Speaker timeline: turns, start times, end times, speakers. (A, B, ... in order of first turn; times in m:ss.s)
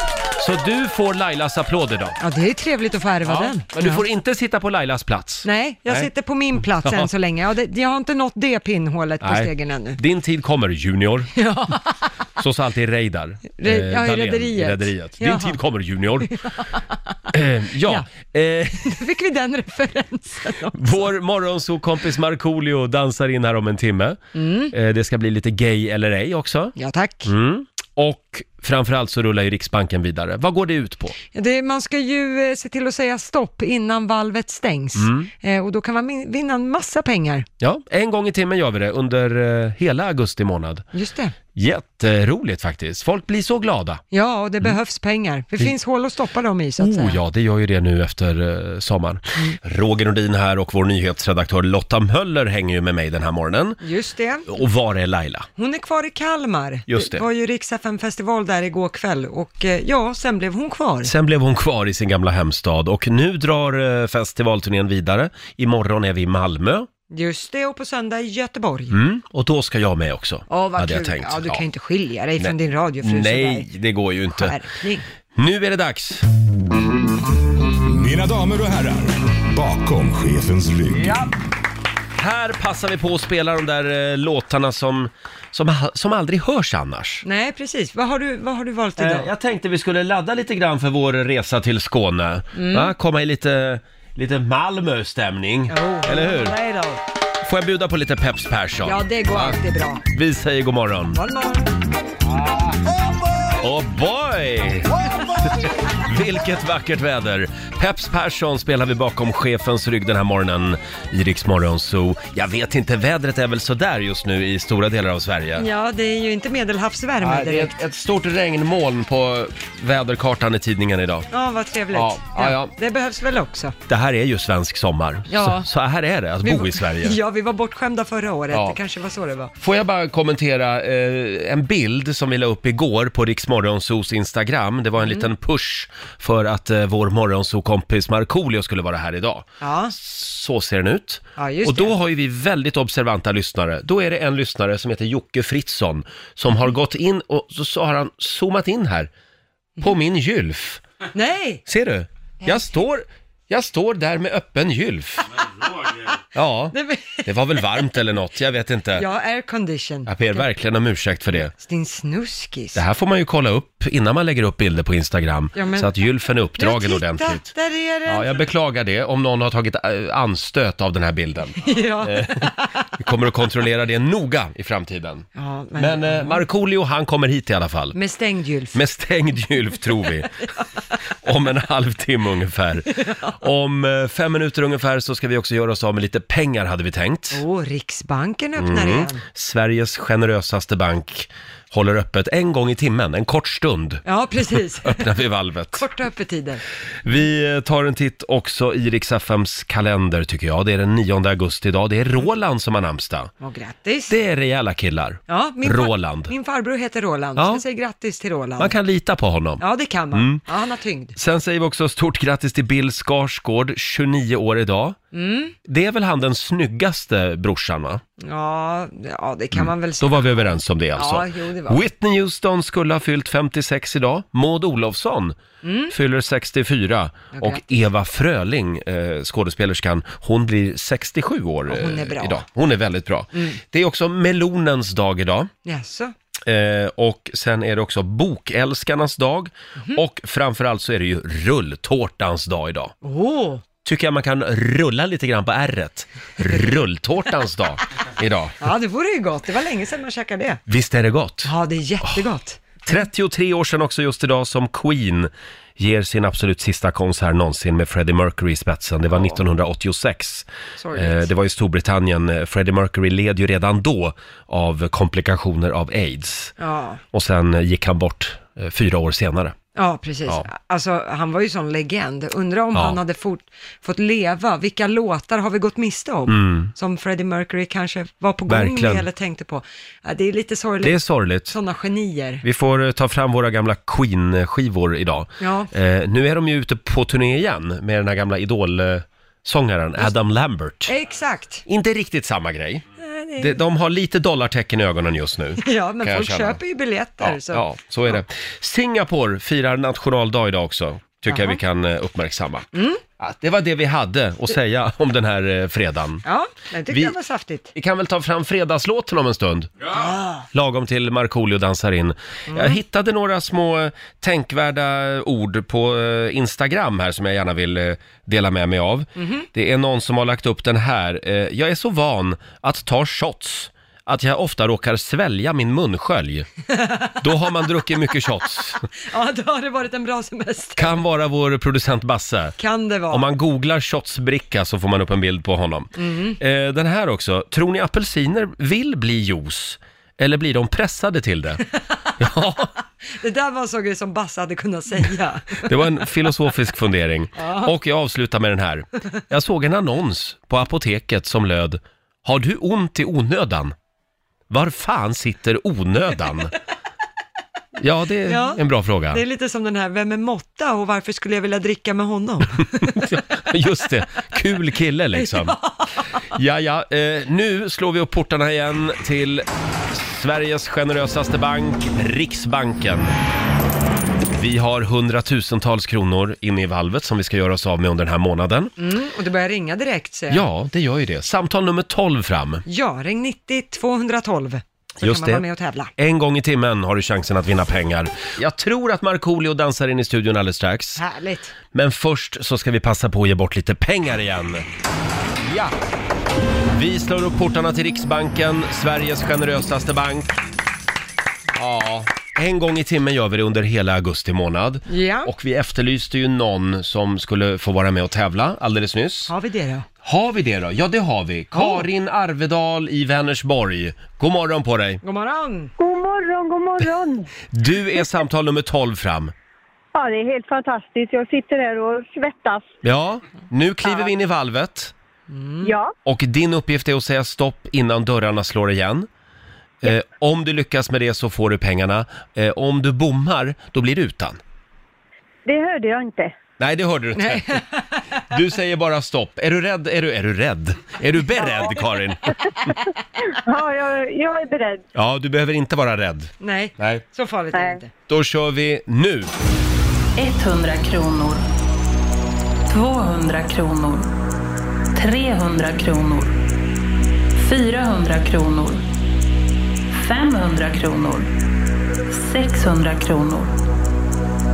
0:00.4-0:02.2 A
0:02.2-0:04.0 B
0:03.2-0:06.1 A
0:05.4-0:10.0 B
0:06.8-0:07.1 A
0:09.2-0:11.3 A
0:11.4-0:11.9 B
0:12.4-0:16.3 A
0:13.6-0:15.6 B
0:17.3-0:18.9 A
0:18.8-0:21.1 B
0:20.7-0:26.7 A
0:24.4-0:24.7 B
0:26.8-0:27.3 B
0:27.2-0:31.2 A
0:31.3-0:37.5 B
0:35.0-0:35.3 A
0:37.6-0:40.9 A
0:40.9-0:41.4 B
0:41.6-0:44.0 A
0:44.1-0:47.2 B
0:46.8-0:53.8 A
0:53.8-0:54.5 B
0:54.5-0:55.5 A
0:55.6-1:01.1 B
0:56.9-0:57.2 A
1:01.0-1:06.9 A
1:07.1-1:09.0 B
1:08.9-1:11.6 A
1:10.5-1:13.7 B
1:12.4-1:14.6 A
1:14.3-1:15.0 B
1:15.4-1:16.2 A
1:17.8-1:21.3 C
1:20.9-1:21.3 A
1:22.2-1:27.2 A
1:27.2-1:29.3 B
1:29.0-1:36.6 A
1:32.5-1:32.9 B
1:35.7-1:37.0 B
1:37.4-1:41.2 A
1:38.8-1:40.0 B
1:41.1-1:41.7 B
1:43.6-1:44.9 A
1:45.5-1:55.7 A
1:55.6-1:57.8 B
1:57.2-2:01.3 A
2:01.3-2:03.8 B
2:01.9-2:02.8 A
2:03.9-2:07.2 A
2:05.3-2:05.7 B
2:06.4-2:09.5 B
2:08.5-2:08.8 A
2:09.6-2:29.1 A
2:15.0-2:15.3 B
2:19.6-2:19.9 B
2:21.4-2:22.0 B
2:29.8-2:30.8 A
2:31.1-2:31.6 B
2:31.7-2:35.3 A
2:32.4-2:32.7 B
2:35.9-2:36.2 B
2:36.3-2:39.0 A
2:36.7-2:37.3 B
2:38.9-2:40.5 B
2:40.1-2:41.5 A
2:41.4-2:42.8 B
2:42.8-2:47.5 A
2:45.5-2:45.9 B
2:46.6-2:48.4 B
2:48.1-2:58.0 A
2:51.6-2:52.7 B
2:55.4-2:56.4 B
2:57.9-2:58.8 B
2:58.7-3:00.4 A
3:01.2-3:07.4 A
3:02.9-3:03.3 B
3:07.3-3:09.2 B
3:08.6-3:14.0 A
3:14.0-3:15.1 B
3:14.8-3:15.9 A
3:15.7-3:16.6 B
3:17.0-3:23.3 A
3:23.4-3:24.1 B
3:24.1-3:26.3 A
3:25.3-3:28.8 B
3:27.4-3:27.6 A
3:28.6-3:30.5 A
3:29.6-3:31.2 B
3:31.2-3:35.0 A
3:35.1-3:35.6 B
3:35.7-3:38.0 A
3:38.2-3:41.8 B
3:39.5-3:55.5 A
3:45.6-3:45.9 B
3:47.3-3:47.7 B
3:51.7-3:52.4 B
3:53.3-3:53.6 B
3:55.6-3:56.1 B
3:56.5-4:03.0 A
4:03.0-4:03.6 B
4:03.8-4:08.6 A
4:08.6-4:10.6 B
4:10.7-4:11.5 A
4:11.4-4:12.9 B
4:12.9-4:26.5 A
4:19.1-4:19.4 B
4:20.8-4:21.3 B
4:26.6-4:27.0 B
4:27.1-4:29.6 A
4:29.8-4:42.4 B
4:32.7-4:33.0 A
4:36.3-4:36.7 A
4:38.5-4:39.1 A
4:40.8-4:41.5 A
4:42.4-4:51.0 A
4:45.4-4:45.7 B
4:50.9-4:51.6 B
4:51.7-4:52.8 A
4:53.0-4:53.6 B
4:53.4-4:56.6 A
4:55.6-4:58.2 B
4:57.2-5:06.2 A
5:01.3-5:01.6 B
5:02.7-5:03.0 B
5:06.2-5:07.7 B
5:06.9-5:07.2 A
5:07.7-5:10.0 A
5:09.9-5:10.4 B
5:10.5-5:26.5 A
5:12.5-5:12.8 B
5:19.2-5:19.5 B
5:26.7-5:27.2 B
5:27.2-5:28.8 A
5:29.1-5:31.0 B
5:30.8-5:32.6 A
5:32.6-5:33.3 B
5:33.1-5:41.6 A
5:36.0-5:36.4 B
5:42.2-5:42.7 A
5:43.2-5:45.7 B
5:45.6-5:53.8 A
5:47.4-5:47.7 B
5:54.5-5:56.5 A
5:57.8-5:59.2 A
5:58.3-6:03.0 B
6:02.9-6:05.6 A
6:05.1-6:06.1 B
6:06.4-6:13.1 A
6:14.3-6:18.7 A
6:18.8-6:20.4 B
6:20.3-6:22.6 A
6:22.7-6:25.9 B
6:25.0-6:25.4 A
6:26.0-6:31.0 A
6:31.0-6:31.6 B
6:31.7-6:34.6 A
6:35.4-6:35.7 A
6:36.7-6:40.4 A
6:41.5-6:49.3 A
6:44.9-6:45.3 B
6:49.3-6:49.9 B
6:50.0-6:55.0 A
6:51.5-6:51.9 B
6:55.0-6:55.7 B
6:55.8-6:57.3 D
6:57.5-6:59.3 A
6:59.9-7:02.7 D
7:02.8-7:04.9 A
7:05.3-7:05.7 B
7:05.6-7:06.0 D
7:06.0-7:09.1 A
7:09.8-7:14.4 A
7:15.5-7:16.4 D
7:16.6-7:17.6 A
7:17.2-7:17.9 B
7:18.3-7:22.7 A
7:21.4-7:21.8 D
7:23.2-7:24.8 D
7:25.0-7:27.0 A
7:26.4-7:27.9 B
7:27.5-7:27.8 D
7:28.1-7:29.3 A
7:30.2-7:31.4 E
7:32.7-7:34.1 E
7:34.9-7:36.4 E
7:37.4-7:38.8 E
7:39.9-7:41.3 E
7:42.1-7:43.6 E